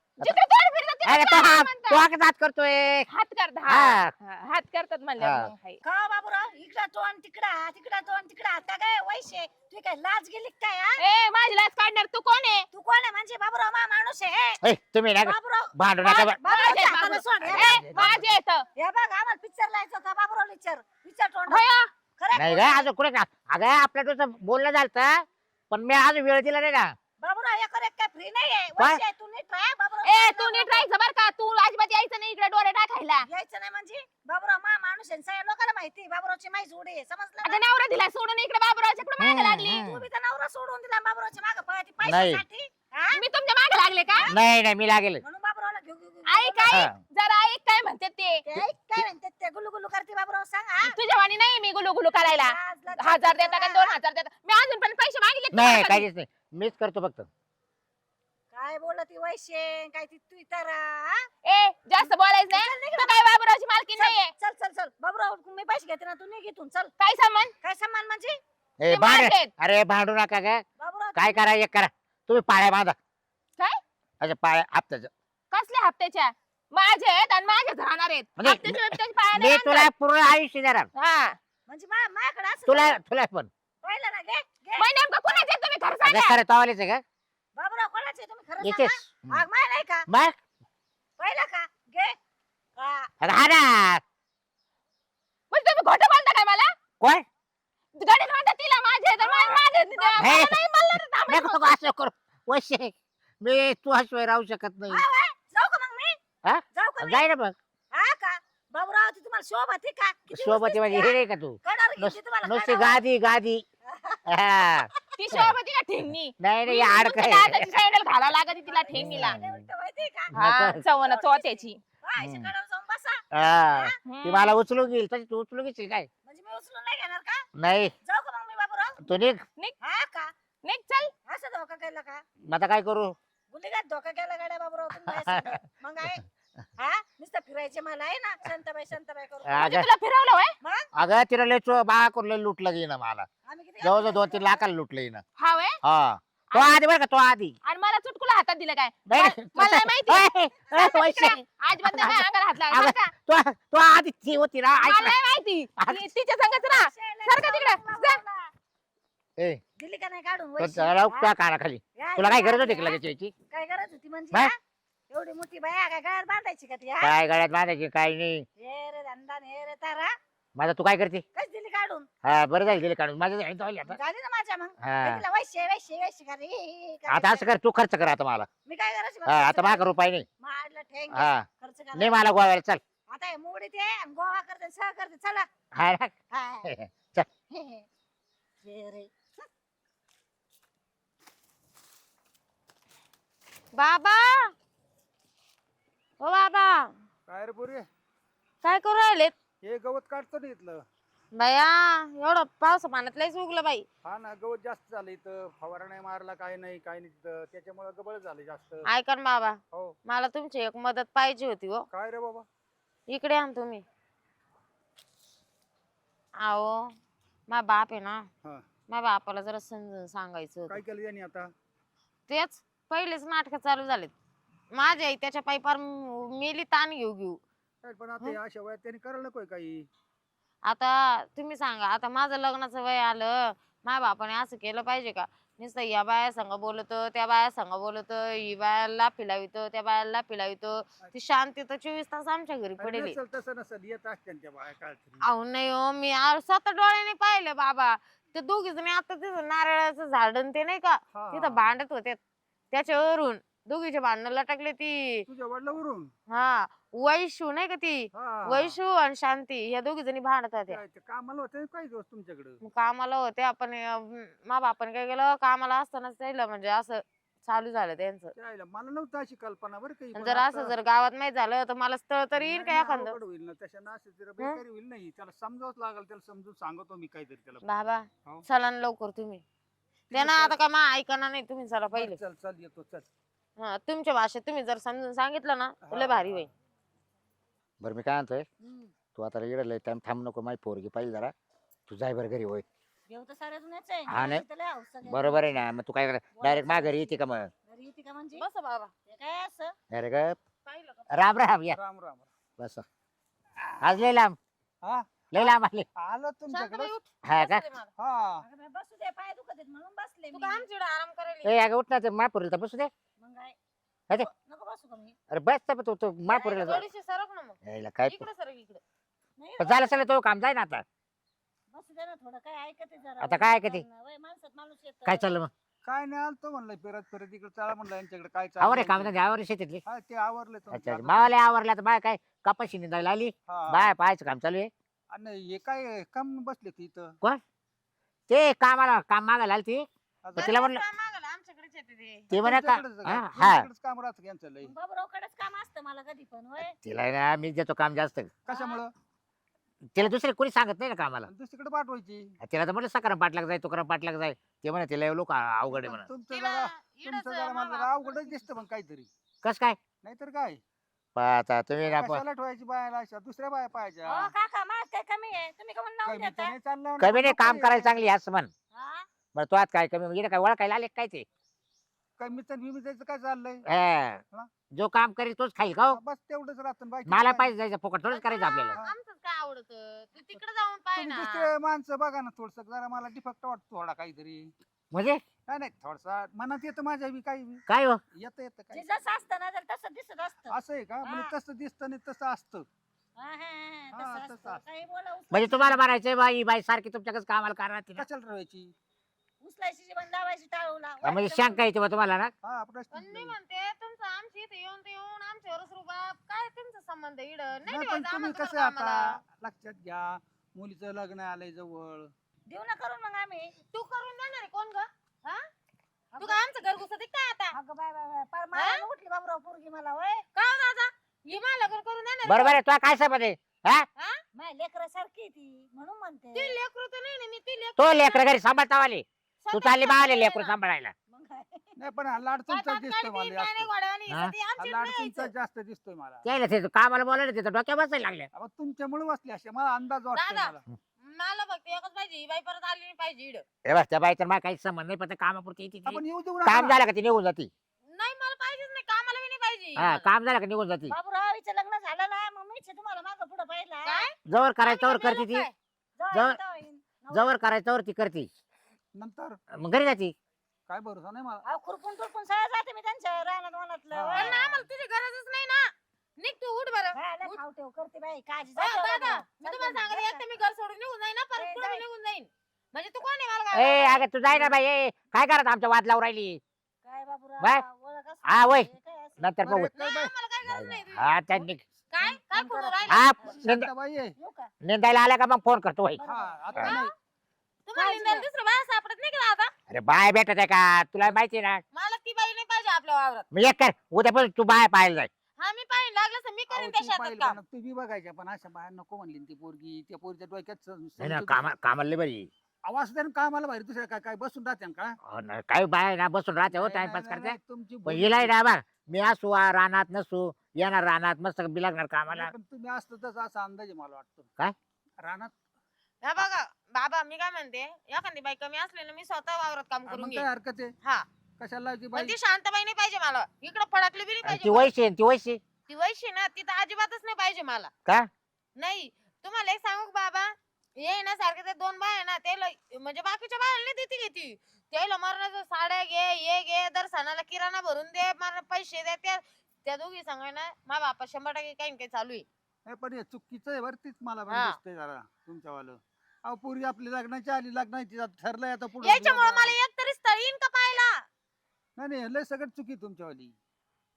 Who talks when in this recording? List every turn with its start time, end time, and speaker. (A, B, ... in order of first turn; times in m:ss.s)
0:00.2-0:02.0 A
0:01.0-0:03.1 B
0:03.1-0:05.8 A
0:03.7-0:04.1 B
0:05.2-0:05.5 B
0:05.8-0:11.0 C
0:11.0-0:12.7 A
0:12.7-0:14.6 C
0:14.6-0:16.4 B
0:15.2-0:18.2 C
0:16.2-0:18.6 A
0:17.4-0:18.3 B
0:18.8-0:22.9 C
0:21.5-0:21.9 A
0:22.3-0:27.0 B
0:27.2-0:30.9 C
0:30.0-0:33.3 A
0:33.2-0:37.6 C
0:37.4-0:39.8 A
0:39.2-0:40.0 B
0:39.6-0:43.2 C
0:42.0-0:42.4 B
0:43.1-0:44.3 A
0:44.3-0:45.2 B
0:45.2-0:46.9 C
0:46.3-0:48.4 A
0:46.7-0:47.0 B
0:48.4-0:51.0 C
0:48.6-0:49.0 B
0:50.8-0:56.1 A
0:52.2-0:54.0 C
0:55.5-0:57.3 B
0:58.5-1:01.3 C
1:01.4-1:04.3 A
1:02.0-1:03.3 C
1:03.9-1:06.9 C
1:07.0-1:07.5 A
1:07.6-1:08.4 C
1:08.8-1:10.6 B
1:08.9-1:09.5 A
1:10.8-1:11.4 C
1:11.2-1:13.0 B
1:14.2-1:15.1 B
1:15.5-1:19.9 A
1:18.4-1:20.9 B
1:21.0-1:21.4 A
1:21.7-1:23.0 C
1:22.7-1:23.5 B
1:23.8-1:24.9 C
1:24.8-1:26.4 A
1:26.0-1:27.0 B
1:27.6-1:30.1 C
1:28.6-1:29.4 B
1:30.1-1:30.4 B
1:31.2-1:32.2 C
1:32.8-1:33.1 C
1:33.2-1:34.0 B
1:35.5-1:36.7 A
1:38.0-1:41.7 A
1:39.2-1:40.4 C
1:40.2-1:45.0 B
1:44.9-1:46.2 C
1:46.4-1:47.6 B
1:46.7-1:47.3 C
1:47.9-1:53.0 C
1:50.3-1:53.6 B
1:53.9-1:54.9 C
1:54.3-1:55.5 B
1:55.2-1:59.4 A
1:56.4-1:57.7 B
1:58.6-2:00.3 C
1:58.9-1:59.6 B
2:00.3-2:00.8 B
2:00.3-2:01.8 A
2:00.8-2:04.0 C
2:02.2-2:02.5 B
2:03.3-2:06.1 B
2:04.0-2:04.5 A
2:06.2-2:07.5 C
2:07.6-2:07.9 B
2:08.0-2:09.1 C
2:09.0-2:09.4 B
2:09.8-2:10.3 C
2:10.6-2:11.1 A
2:11.3-2:12.2 C
2:12.4-2:13.1 B
2:13.5-2:16.2 C
2:15.1-2:15.6 B
2:16.8-2:19.8 C
2:19.5-2:19.9 B
2:19.6-2:20.6 A
2:20.6-2:20.9 C
2:20.9-2:23.3 B
2:23.5-2:24.6 C
2:23.8-2:25.2 B
2:25.4-2:25.8 A
2:25.8-2:27.6 B
2:26.5-2:26.8 A
2:27.6-2:33.1 A
2:29.1-2:35.2 B
2:34.8-2:38.2 A
2:35.8-2:36.1 B
2:36.6-2:38.5 C
2:39.8-2:41.3 C
2:40.6-2:43.3 B
2:42.0-2:44.6 C
2:45.1-2:47.1 C
2:47.0-2:48.5 B
2:48.6-2:50.1 C
2:50.6-2:51.2 B
2:51.3-2:52.1 C
2:52.2-2:54.0 B
2:53.9-2:57.4 C
2:54.8-2:55.2 B
2:57.1-2:58.5 B
2:58.7-2:59.9 C
2:59.3-3:00.3 B
3:00.4-3:02.2 C
3:01.1-3:02.8 B
3:03.1-3:05.5 C
3:05.7-3:07.3 B
3:06.3-3:06.7 C
3:07.5-3:07.9 C
3:08.6-3:09.5 C
3:13.8-3:14.5 D
3:16.2-3:16.9 D
3:17.3-3:17.9 E
3:18.6-3:19.3 D
3:19.6-3:20.8 E
3:21.4-3:23.8 D
3:24.0-3:28.9 E
3:28.8-3:31.9 D
3:31.9-3:32.5 E
3:33.1-3:33.8 D
3:36.4-3:36.9 D
3:37.5-3:38.3 D
3:38.9-3:40.8 D
3:40.7-3:41.5 E
3:42.3-3:44.1 D
3:44.7-3:47.4 D
3:47.8-3:49.9 E
3:50.7-4:03.2 D
4:02.8-4:05.2 E
4:05.2-4:12.2 D
4:11.2-4:11.7 E
4:12.7-4:15.3 D
4:15.3-4:16.1 E
4:16.3-4:20.8 D
4:18.2-4:18.8 E
4:20.7-4:22.6 E
4:22.6-4:28.3 D
4:28.4-4:30.7 E
4:30.2-4:33.2 D
4:32.4-4:37.6 E
4:37.6-4:39.4 D
4:40.1-4:40.6 E
4:40.1-4:42.2 D
4:41.9-4:43.1 E
4:43.6-4:46.5 D
4:45.9-4:46.5 E
4:47.8-4:48.5 B
4:48.6-4:48.9 C
4:49.2-4:51.3 B
4:51.9-4:52.6 B
4:53.1-4:55.6 C
4:54.1-4:54.4 B
4:55.1-4:57.5 B
4:56.4-4:58.5 C
4:58.4-4:58.9 D
4:59.1-4:59.8 C
4:59.9-5:00.4 B
5:00.7-5:01.1 D
5:01.1-5:01.8 B
5:01.7-5:02.3 E
5:02.6-5:02.8 B
5:03.8-5:04.4 B
5:04.8-5:05.1 E
5:05.3-5:05.9 B
5:06.0-5:06.9 E
5:06.5-5:07.9 D
5:07.2-5:07.6 B
5:08.0-5:08.4 E
5:08.4-5:10.6 C
5:10.3-5:11.6 D
5:11.4-5:12.9 B
5:13.2-5:13.6 C
5:14.1-5:15.2 C
5:15.3-5:16.8 B
5:16.2-5:18.8 D
5:17.6-5:18.3 B
5:19.4-5:20.0 C
5:19.6-5:20.8 B
5:21.7-5:25.3 C
5:23.2-5:23.8 B
5:25.1-5:25.5 B
5:25.8-5:29.1 E
5:28.6-5:29.8 B
5:29.9-5:31.3 E
5:30.7-5:34.7 B
5:33.5-5:33.9 E
5:35.1-5:37.2 E
5:38.3-5:40.8 B
5:40.2-5:40.5 E
5:40.4-5:42.3 D
5:42.3-5:43.7 B
5:42.3-5:44.7 E
5:44.6-5:46.8 C
5:46.8-5:48.3 B
5:48.5-5:48.9 E
5:48.5-5:48.8 D
5:49.9-5:51.3 B
5:51.3-5:52.3 E
5:52.4-5:56.1 B
5:55.7-5:59.1 E
5:56.3-5:58.4 D
5:59.4-5:59.8 B
6:00.0-6:00.6 E
6:01.2-6:02.2 B
6:01.8-6:04.3 E
6:04.0-6:06.6 C
6:06.1-6:08.0 E
6:07.0-6:08.5 B
6:08.7-6:09.1 C
6:09.3-6:11.3 B
6:12.2-6:13.6 E
6:13.6-6:16.0 B
6:15.9-6:17.5 E
6:17.1-6:18.8 B
6:18.1-6:21.5 D
6:21.0-6:24.5 E
6:24.9-6:25.2 B
6:25.5-6:27.6 E
6:27.7-6:28.0 B
6:28.2-6:28.9 E
6:28.7-6:31.3 C
6:30.5-6:32.7 E
6:33.2-6:35.8 C
6:33.9-6:34.6 E
6:35.3-6:38.1 B
6:38.0-6:38.7 E
6:39.4-6:41.6 C
6:41.0-6:42.3 B
6:42.4-6:43.4 E
6:42.9-6:49.2 D
6:47.7-6:52.1 E
6:52.5-6:53.5 C
6:53.7-6:55.5 D
6:56.1-6:56.4 C
6:56.2-6:57.6 D
6:57.5-7:00.2 C
6:58.5-6:58.8 D
7:00.4-7:02.6 D
7:02.3-7:03.9 B
7:04.4-7:06.6 C
7:06.4-7:08.3 D
7:07.8-7:10.9 B
7:09.4-7:10.6 D
7:11.1-7:11.8 C
7:11.8-7:13.7 E
7:12.5-7:15.3 D
7:14.1-7:14.4 B
7:14.6-7:16.2 E
7:16.2-7:18.3 B
7:18.3-7:20.6 E
7:20.1-7:23.4 D
7:23.6-7:27.5 B
7:25.8-7:26.8 E
7:27.9-7:30.1 D
7:29.8-7:30.9 B
7:30.9-7:34.1 C
7:33.8-7:35.5 D
7:34.3-7:35.5 B
7:36.0-7:37.3 C
7:36.1-7:36.4 B
7:37.1-7:38.3 B
7:39.0-7:39.4 E
7:39.5-7:40.2 B
7:40.7-7:41.4 E
7:41.4-7:44.4 C
7:43.9-7:44.7 E
7:44.2-7:47.4 D
7:46.9-7:50.2 C
7:48.6-7:54.1 D
7:51.4-7:51.8 C
7:53.5-7:56.4 B
7:56.8-7:59.3 C
7:58.2-7:59.7 B
7:59.4-8:00.1 E
7:59.8-8:03.1 D
8:00.4-8:01.6 B
8:02.0-8:03.4 C
8:02.9-8:03.7 B
8:03.1-8:04.1 E
8:04.2-8:04.5 C
8:04.6-8:06.0 B
8:06.0-8:06.7 C
8:06.0-8:06.9 E
8:06.6-8:06.9 D
8:07.7-8:09.5 D
8:07.8-8:08.3 C
8:09.7-8:11.6 B
8:11.7-8:13.3 D
8:13.3-8:15.1 B
8:15.4-8:17.4 D
8:16.5-8:21.5 E
8:21.0-8:22.3 B
8:22.6-8:25.0 E
8:25.0-8:32.3 B
8:26.5-8:28.3 E
8:32.1-8:34.3 E
8:35.0-8:35.4 E
8:36.0-8:40.3 D
8:39.9-8:40.7 E
8:41.4-8:42.2 E
8:41.9-8:44.7 D
8:44.2-8:45.4 B
8:45.7-8:47.7 D
8:48.6-9:02.2 D
9:02.7-9:09.6 E
9:04.3-9:04.6 D
9:08.8-9:11.0 D
9:11.8-9:13.4 E